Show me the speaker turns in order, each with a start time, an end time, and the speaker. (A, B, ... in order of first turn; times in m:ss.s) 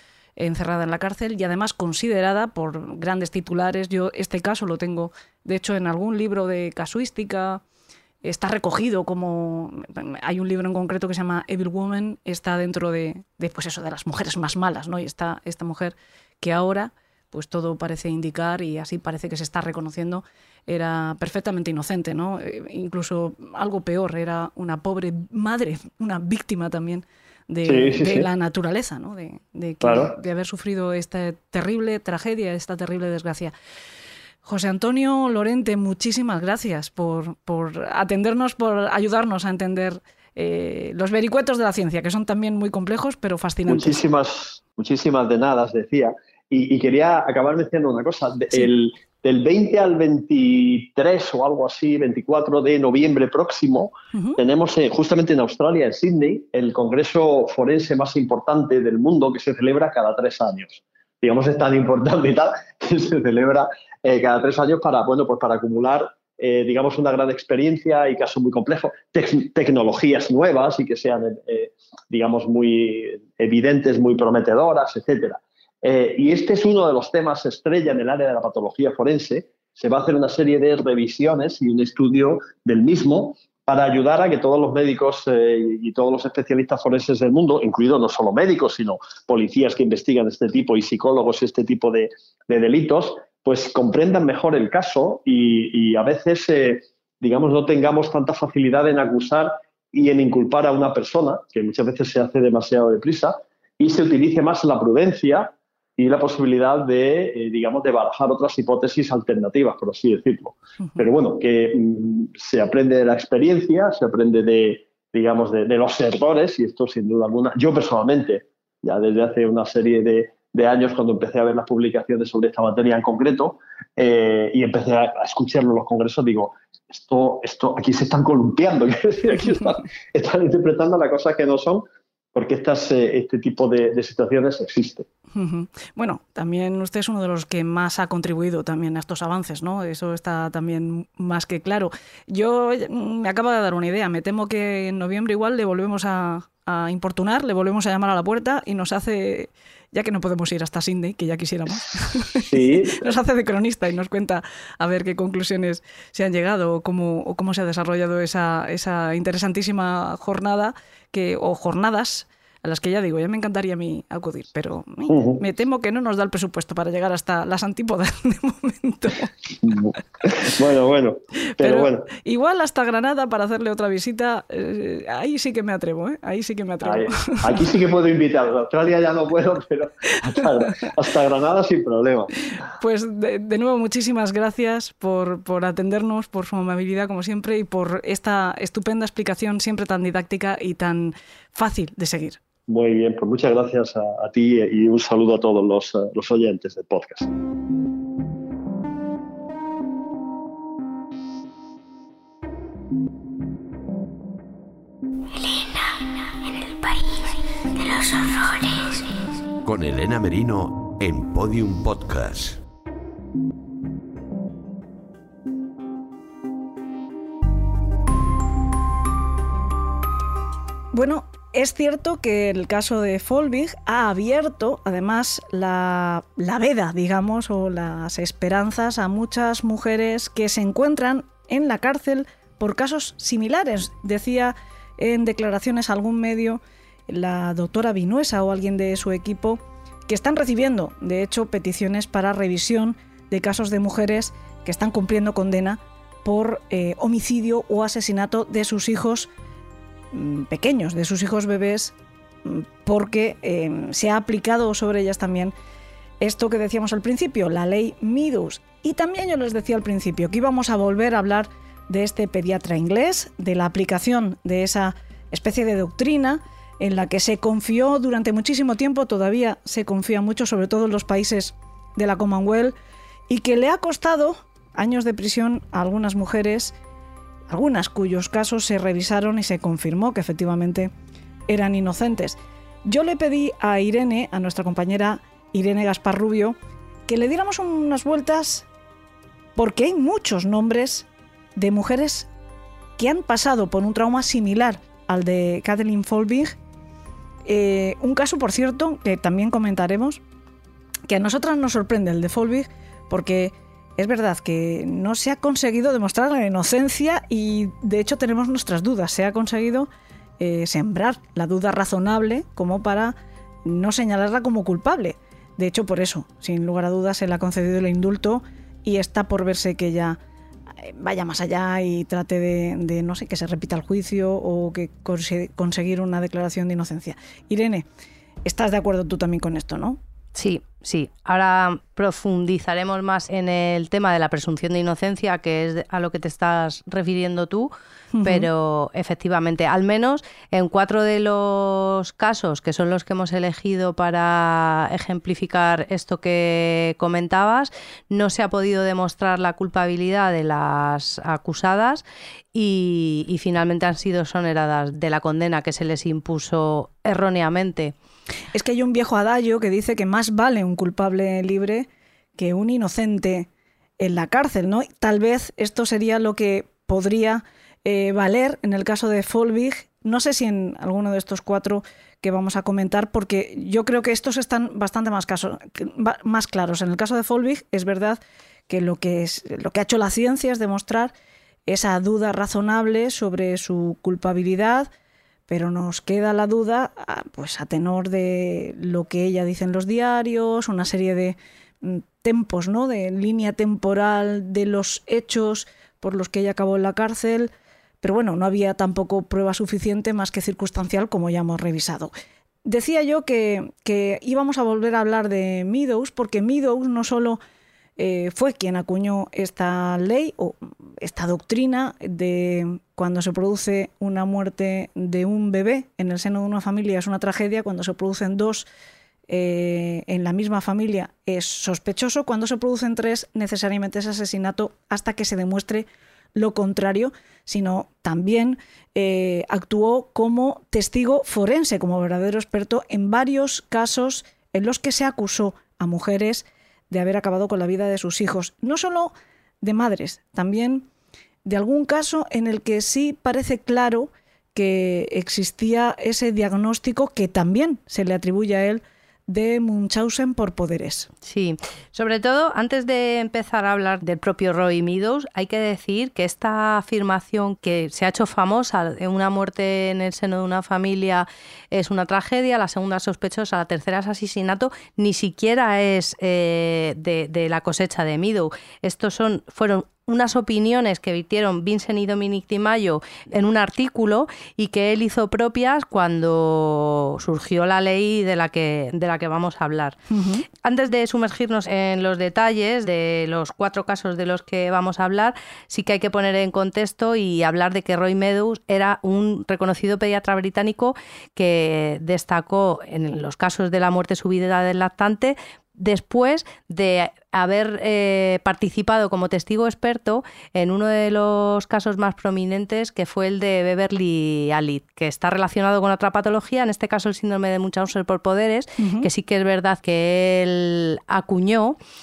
0:00.4-0:07.6 A
0:08.2-0:33.5 A
0:27.6-0:28.3 B
0:29.8-0:30.1 B
0:34.4-0:44.0 A
0:43.7-2:15.1 B
0:54.1-0:54.4 A
2:15.3-2:49.3 A
2:32.4-2:33.1 B
2:45.1-2:45.4 B
2:49.6-2:52.1 B
2:51.6-2:57.6 A
2:56.8-3:02.4 B
3:02.8-3:12.4 A
3:12.7-3:17.3 B
3:25.3-3:29.1 C
3:29.6-3:32.6 D
3:40.9-4:09.3 A
4:10.1-4:15.5 A
4:16.2-4:32.8 A
4:33.3-4:36.8 A
4:37.5-4:40.9 A
4:41.5-4:46.6 A
4:47.1-4:48.7 A
4:49.6-4:52.3 A
4:53.0-4:56.6 A
4:57.5-5:00.2 A
5:01.1-5:09.9 A
5:10.4-5:20.2 A
5:20.8-5:27.8 A
5:28.5-5:30.0 A
5:30.4-5:37.7 E
5:38.2-5:38.5 A
5:38.2-5:57.9 E
5:58.5-6:03.5 A
6:04.0-6:21.1 A
6:21.7-6:24.9 A
6:25.5-6:37.5 A
6:38.0-6:42.1 A
6:42.6-6:47.4 A
6:48.0-6:58.7 A
6:59.3-7:20.9 A
7:21.5-7:31.1 A
7:31.2-8:00.0 E
8:00.1-8:00.4 A
8:00.6-8:31.8 E
8:28.8-8:29.1 A